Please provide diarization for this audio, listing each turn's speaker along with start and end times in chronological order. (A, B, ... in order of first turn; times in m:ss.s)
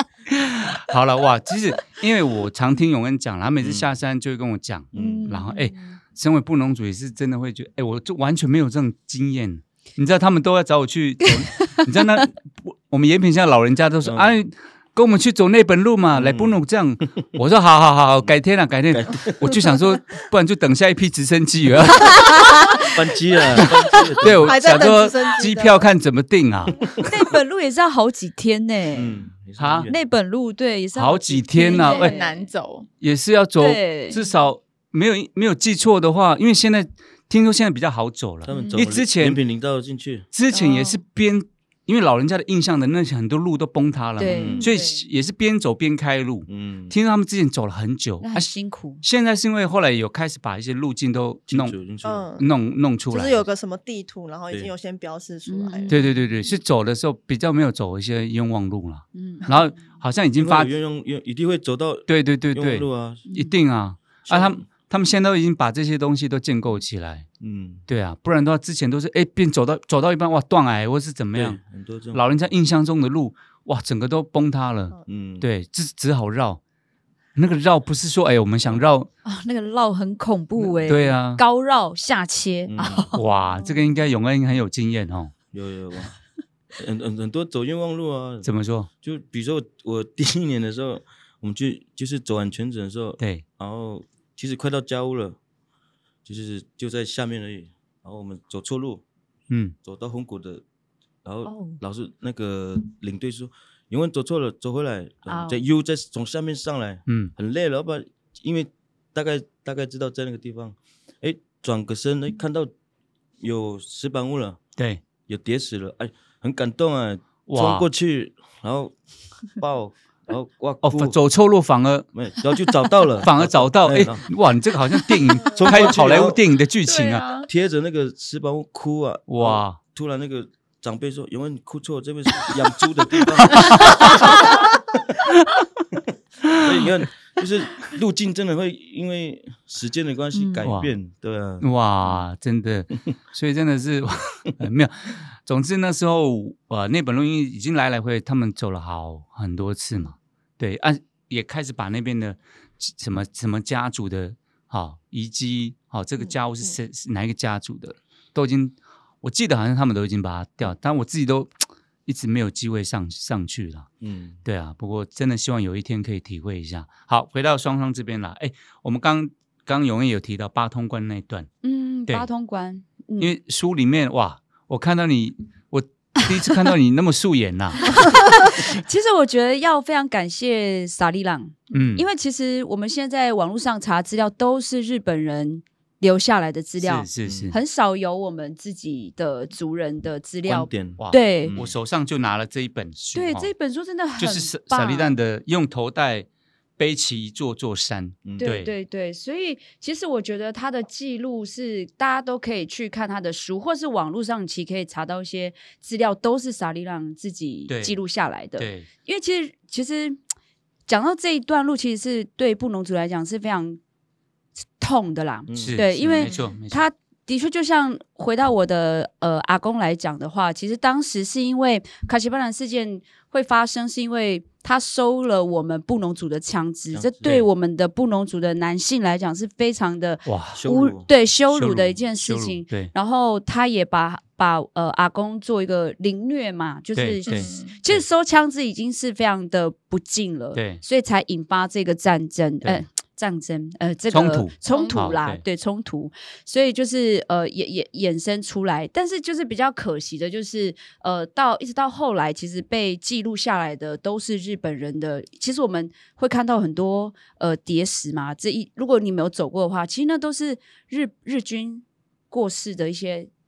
0:00.3-0:22.4 A
0:03.6-0:03.9 B
0:04.9-0:05.2 B
0:04.9-0:06.0 C
0:11.2-0:12.2 C
0:14.0-0:14.4 B
0:16.1-0:17.2 B
0:18.9-0:19.6 B
0:22.0-0:22.9 C
0:22.9-0:24.8 B
0:23.5-0:24.1 C
0:24.2-0:26.8 A
0:24.4-0:25.8 D
0:26.8-0:27.1 B
0:27.0-0:29.2 C
0:28.9-0:30.0 B
0:29.6-0:29.9 A
0:29.9-0:32.5 C
0:30.9-0:32.2 A
0:31.7-0:32.9 E
0:31.9-0:32.2 D
0:33.0-0:39.4 A
0:33.6-0:34.3 C
0:38.4-0:40.3 B
0:38.6-0:38.8 E
0:40.3-0:51.8 A
0:40.5-0:41.0 C
0:44.2-0:45.0 C
0:44.3-0:44.7 B
0:44.4-0:44.7 D
0:46.5-0:46.9 B
0:48.2-0:49.0 C
0:51.5-0:52.3 B
0:52.0-0:52.5 D
0:52.4-0:53.5 A
0:53.1-0:55.9 D
0:55.4-0:56.5 C
0:55.9-1:00.7 A
0:59.1-0:59.7 C
1:00.4-1:03.2 B
1:02.1-1:07.3 A
1:03.2-1:03.6 C
1:04.2-1:04.6 B
1:07.4-1:07.8 B
1:07.9-1:11.6 A
1:11.3-1:12.5 B
1:12.1-1:16.6 A
1:15.1-1:15.4 B
1:17.3-1:19.1 A
1:19.2-1:24.0 C
1:20.8-1:21.4 A
1:22.7-1:23.1 B
1:23.1-1:25.3 A
1:25.5-1:26.1 B
1:26.7-1:28.5 B
1:28.4-1:28.9 A
1:29.0-1:35.4 B
1:33.2-1:33.4 A
1:36.2-1:39.0 B
1:39.5-1:39.7 A
1:39.8-1:40.6 B
1:41.2-1:52.7 B
1:41.4-1:41.8 C
1:45.3-1:45.6 C
1:47.1-1:47.3 A
1:53.4-1:54.6 B
1:54.8-1:55.0 A
1:55.3-2:01.2 B
1:57.4-1:57.9 A
2:00.8-2:02.0 A
2:02.1-2:04.3 B
2:03.2-2:07.2 A
2:05.5-2:06.4 B
2:06.8-2:07.5 E
2:07.4-2:15.0 B
2:09.3-2:09.8 A
2:13.5-2:14.3 A
2:15.3-2:15.6 A
2:16.6-2:22.1 B
2:20.3-2:20.7 C
2:20.6-2:20.9 A
2:21.6-2:43.9 A
2:44.0-2:44.4 B
2:44.4-2:51.5 A
2:51.6-2:53.4 C
2:53.2-2:58.0 A
2:57.8-3:11.5 C
3:01.7-3:02.0 A
3:06.8-3:07.6 A
3:07.2-3:07.5 B
3:10.5-3:11.7 B
3:11.0-3:13.5 A
3:13.2-3:15.1 C
3:14.2-3:16.3 A
3:16.8-3:18.7 A
3:18.2-3:18.6 B
3:18.4-3:30.2 C
3:27.7-3:28.0 A
3:28.6-3:28.9 A
3:30.9-3:33.8 C
3:34.8-4:23.3 C
3:35.5-3:36.3 B
3:35.6-3:36.8 A
3:46.9-3:47.4 B
3:47.2-3:47.5 A
3:50.2-3:50.6 A
3:50.5-3:51.1 B
3:51.5-3:52.9 A
3:56.9-3:58.0 A
3:57.2-3:57.8 E
4:00.5-4:00.8 A
4:04.1-4:05.4 A
4:04.7-4:05.2 E